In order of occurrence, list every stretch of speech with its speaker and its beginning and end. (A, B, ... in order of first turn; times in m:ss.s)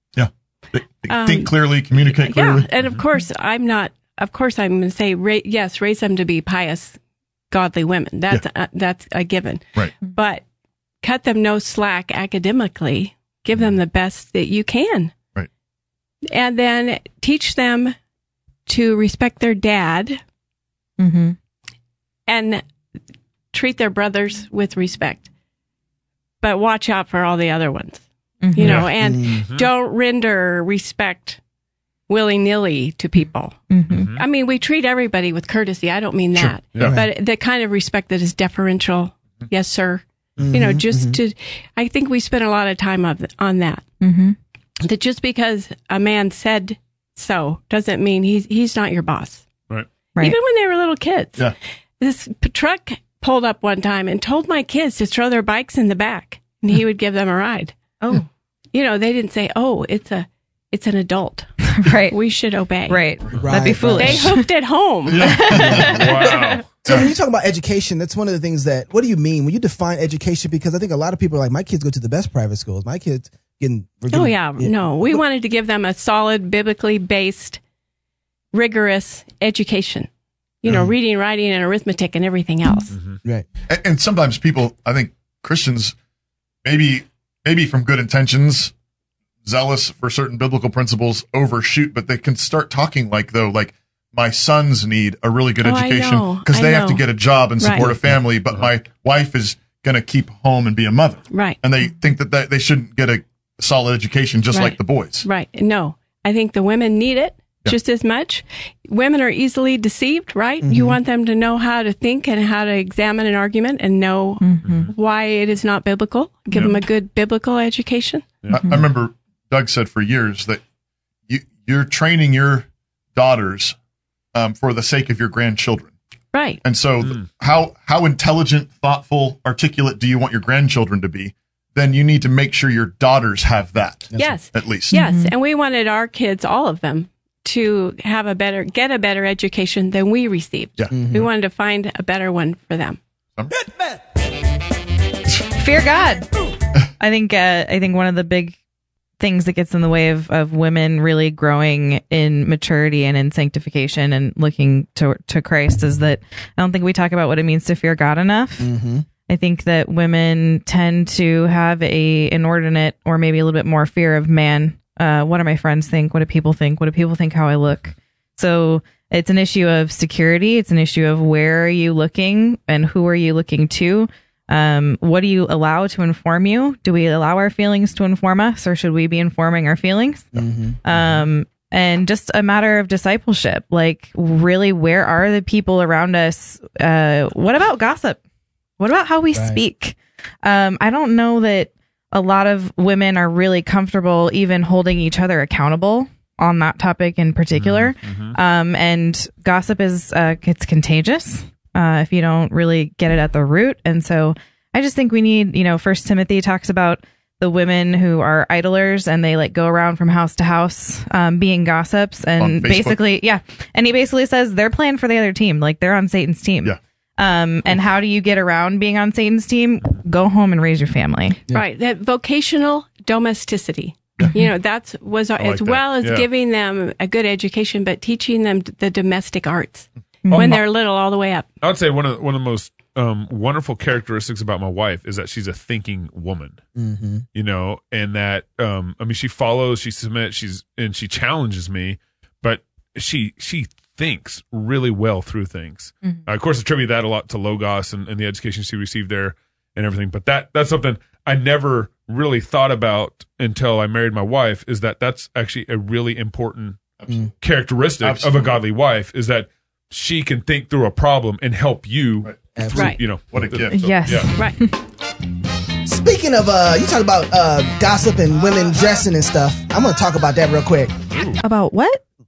0:00.2-0:02.7 A
0:01.1-0:01.5 B
0:02.1-0:07.0 B
0:07.5-0:10.4 B
0:11.0-0:15.1 B
0:16.3-0:18.0 B
0:18.7-0:20.2 B
0:21.0-0:21.4 C
0:22.3-0:22.6 B
0:23.5-0:25.3 B
0:26.4-0:31.4 B
0:28.4-0:28.8 C
0:28.6-0:29.7 D
0:28.8-0:29.4 E
0:32.1-0:33.6 B
0:33.7-0:34.1 C
0:33.9-0:34.2 D
0:34.1-0:43.8 B
0:36.4-0:37.0 A
0:36.7-0:37.0 D
0:36.8-0:37.1 E
0:40.4-0:41.2 E
0:44.0-0:44.4 C
0:44.8-0:49.5 B
0:50.2-0:57.8 B
0:58.0-0:58.3 C
0:58.7-1:01.5 B
1:01.6-1:02.2 C
1:02.1-1:03.0 B
1:02.9-1:04.5 C
1:03.3-1:04.3 E
1:04.0-1:05.4 B
1:05.1-1:06.0 A
1:05.1-1:06.6 C
1:05.6-1:05.9 E
1:05.7-1:06.7 D
1:06.8-1:15.2 E
1:06.9-1:07.1 A
1:14.1-1:17.6 B
1:18.5-1:20.1 B
1:20.6-1:23.0 B
1:22.9-1:23.2 D
1:23.7-1:26.0 A
1:26.6-1:28.7 A
1:29.4-1:45.3 A
1:35.6-1:37.9 B
1:41.3-1:41.6 B
1:44.5-1:58.3 B
1:50.6-1:51.0 E
1:54.4-1:54.9 C
1:54.6-1:54.9 D
1:58.4-1:58.7 D
1:58.5-2:00.6 A
2:01.3-2:03.8 A
2:04.3-2:05.9 A
2:06.3-2:06.6 B
2:06.6-2:15.0 A
2:14.2-2:23.0 B
2:14.9-2:15.3 C
2:20.8-2:21.0 A
2:20.9-2:21.3 E
2:25.6-2:26.3 C
2:27.0-2:28.6 C
2:29.2-2:38.7 C
2:38.6-2:39.1 E
2:39.3-3:08.2 C
3:00.3-3:00.8 E
3:08.8-3:41.4 C
3:09.3-3:09.6 E
3:17.5-3:18.4 D
3:32.4-3:33.0 A
3:41.5-3:51.5 B
3:45.4-3:46.3 D
3:50.3-3:50.6 C
3:50.3-3:50.6 D
3:51.6-3:56.6 D
3:56.8-3:57.2 E
3:57.3-4:16.8 D
4:17.4-4:24.3 D
4:18.0-4:18.6 A
4:22.6-4:23.0 E
4:22.7-4:23.0 B
4:23.3-4:23.8 A
4:23.7-4:24.7 C
4:25.8-4:31.0 E
4:31.1-4:31.4 D
4:31.4-4:32.0 C